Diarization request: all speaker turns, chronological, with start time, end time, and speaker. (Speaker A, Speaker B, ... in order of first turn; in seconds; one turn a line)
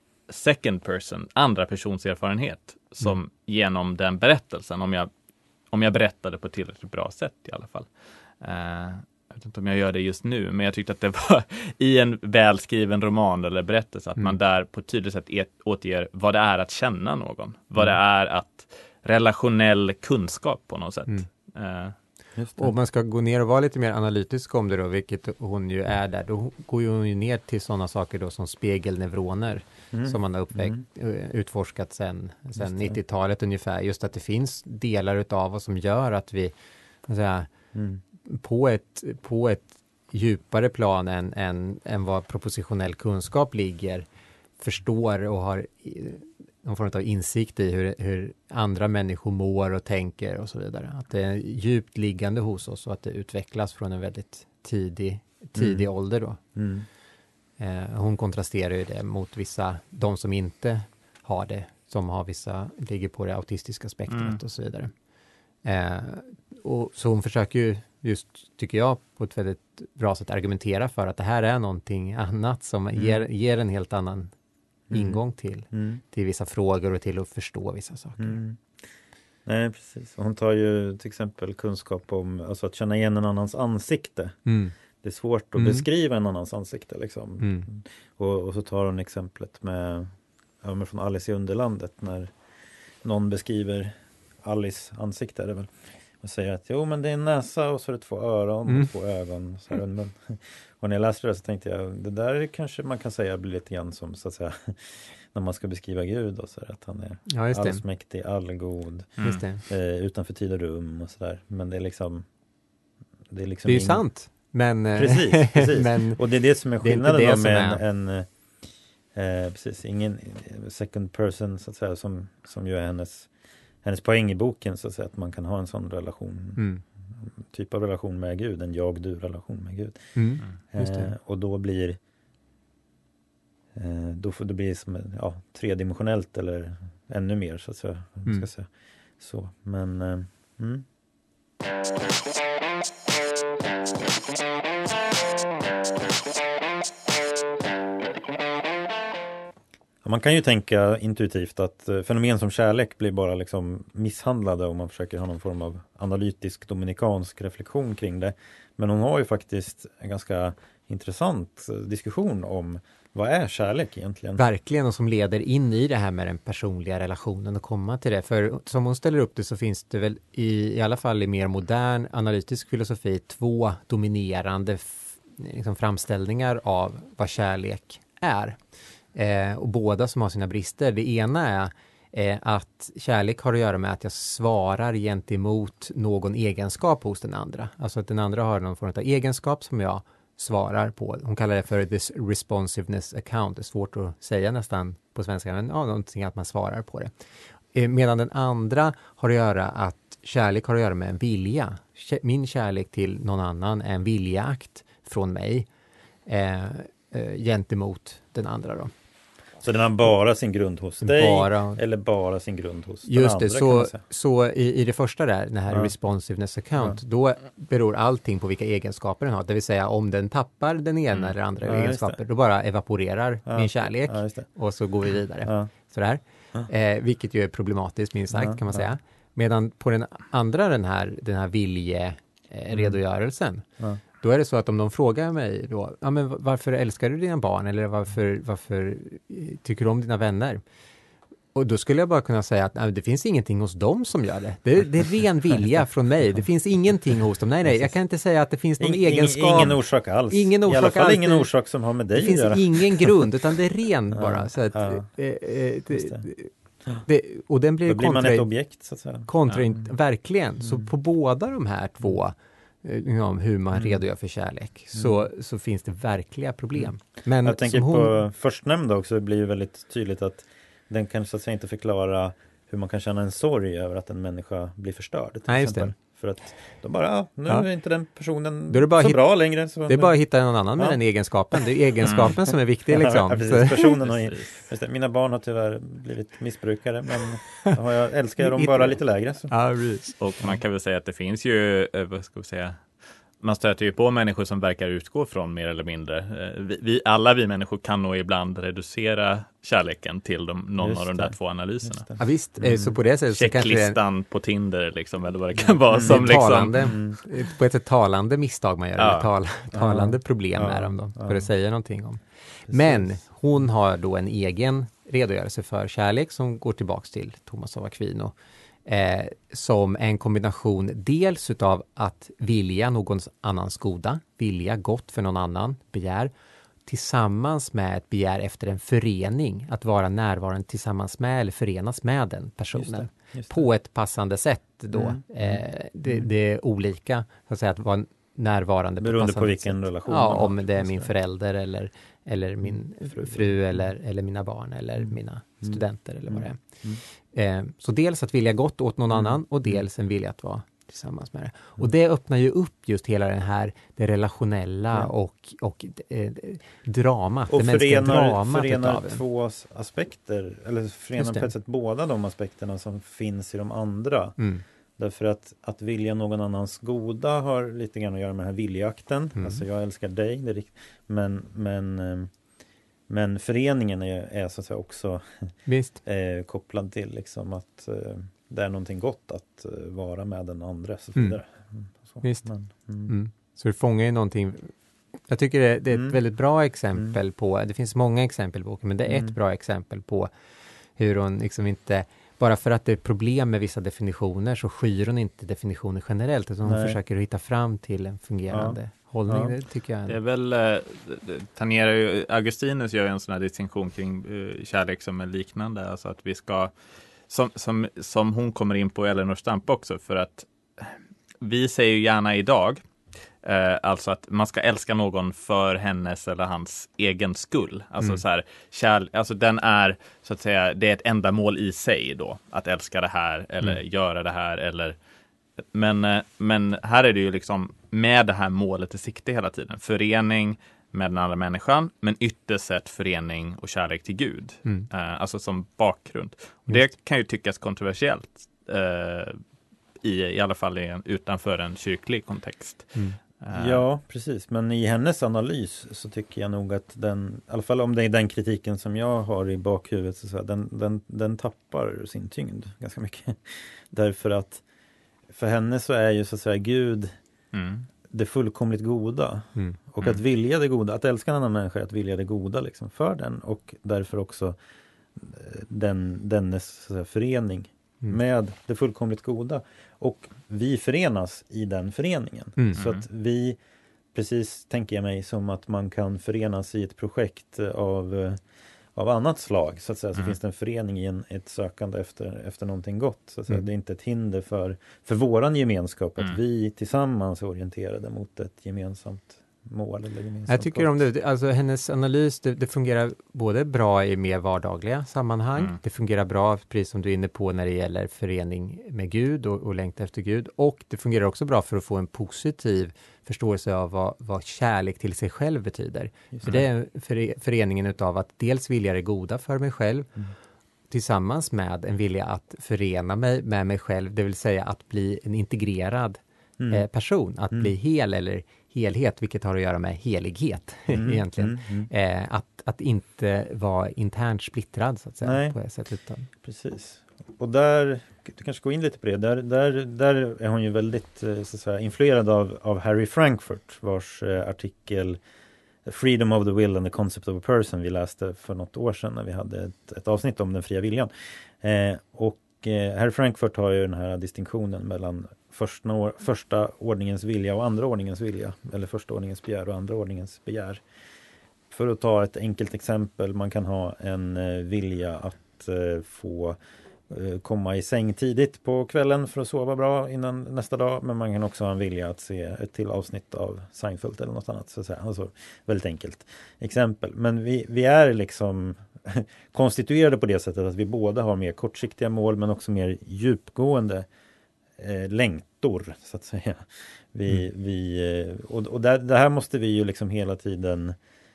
Speaker A: 0.3-5.1
Speaker A: 5.7-21.9
Speaker B: 22.4-22.7
Speaker C: 22.6-36.5
Speaker B: 29.9-30.8
Speaker B: 32.6-33.0
Speaker C: 37.1-37.5
Speaker B: 37.7-38.0
Speaker C: 38.2-44.0
Speaker C: 44.6-56.4
Speaker B: 55.5-55.9
Speaker B: 56.5-56.9
Speaker C: 57.6-64.9
Speaker A: 64.1-64.4
Speaker C: 65.6-74.3
Speaker B: 74.9-75.2
Speaker C: 74.9-78.4
Speaker B: 75.7-76.0
Speaker B: 78.2-78.6
Speaker B: 79.5-84.4
Speaker C: 84.5-84.7
Speaker B: 85.0-92.3
Speaker C: 85.5-85.8
Speaker C: 87.4-87.7
Speaker B: 93.0-112.2
Speaker C: 107.3-107.8
Speaker C: 109.2-109.6
Speaker B: 113.3-114.0
Speaker C: 113.7-116.2
Speaker B: 114.9-118.3
Speaker C: 116.8-117.8
Speaker B: 119.1-123.3
Speaker B: 123.8-126.6
Speaker C: 126.6-126.8
Speaker B: 127.2-130.1
Speaker C: 130.2-131.1
Speaker B: 130.7-132.0
Speaker B: 133.7-140.8
Speaker B: 150.0-164.4
Speaker C: 164.4-178.6
Speaker C: 179.1-197.1
Speaker C: 197.7-205.7
Speaker C: 206.2-208.9
Speaker B: 209.6-214.0
Speaker C: 211.0-211.8
Speaker C: 213.0-240.6
Speaker B: 221.7-222.2
Speaker B: 223.4-224.4
Speaker B: 225.4-225.7
Speaker B: 228.3-228.9
Speaker B: 232.7-233.0
Speaker C: 241.5-251.5
Speaker B: 247.6-247.9
Speaker B: 248.8-253.3
Speaker C: 252.1-256.5
Speaker B: 254.1-255.1
Speaker B: 255.9-256.2
Speaker C: 257.0-258.5
Speaker B: 257.9-259.3
Speaker C: 259.2-268.2
Speaker B: 263.7-264.0
Speaker B: 267.4-280.1
Speaker C: 275.5-275.9
Speaker C: 278.7-279.2
Speaker C: 279.9-283.9
Speaker A: 282.1-282.3
Speaker B: 282.2-289.5
Speaker A: 284.1-284.5
Speaker C: 288.4-288.9
Speaker C: 289.5-290.2
Speaker A: 290.2-292.9
Speaker A: 293.4-302.1
Speaker B: 300.8-302.9
Speaker C: 302.2-304.0
Speaker A: 303.3-306.9
Speaker C: 305.9-318.3
Speaker B: 305.9-306.2
Speaker B: 306.8-307.2
Speaker A: 309.0-309.3
Speaker B: 309.7-311.5
Speaker B: 312.7-313.1
Speaker C: 318.9-326.3
Speaker C: 326.8-346.6
Speaker B: 332.7-333.7
Speaker B: 334.9-336.2
Speaker B: 339.0-341.1
Speaker B: 342.6-343.5
Speaker B: 345.6-347.0
Speaker C: 347.3-359.2
Speaker B: 357.5-364.4
Speaker C: 361.1-361.5
Speaker C: 364.4-364.6
Speaker B: 365.0-372.3
Speaker C: 369.4-369.6
Speaker B: 373.1-383.1
Speaker C: 375.6-376.0
Speaker C: 382.2-382.5
Speaker C: 383.1-384.7
Speaker C: 385.2-390.3
Speaker B: 389.1-389.3
Speaker C: 390.9-400.2
Speaker B: 396.6-397.0
Speaker B: 398.5-399.5
Speaker A: 400.1-406.7
Speaker A: 407.3-412.8
Speaker A: 413.4-425.0
Speaker A: 425.7-439.4
Speaker A: 440.0-443.8
Speaker B: 443.5-454.6
Speaker B: 455.3-457.1
Speaker A: 457.5-457.9
Speaker B: 458.1-464.6
Speaker B: 465.1-473.6
Speaker A: 472.8-473.0
Speaker B: 474.1-478.4
Speaker B: 478.9-490.9
Speaker C: 490.5-510.1
Speaker B: 506.3-506.6
Speaker C: 510.9-526.3
Speaker B: 516.6-516.8
Speaker B: 520.9-521.9
Speaker B: 525.2-525.5
Speaker B: 526.4-535.2
Speaker B: 535.8-541.1
Speaker B: 541.6-550.8
Speaker B: 551.7-556.6
Speaker B: 557.1-574.1
Speaker B: 574.8-581.0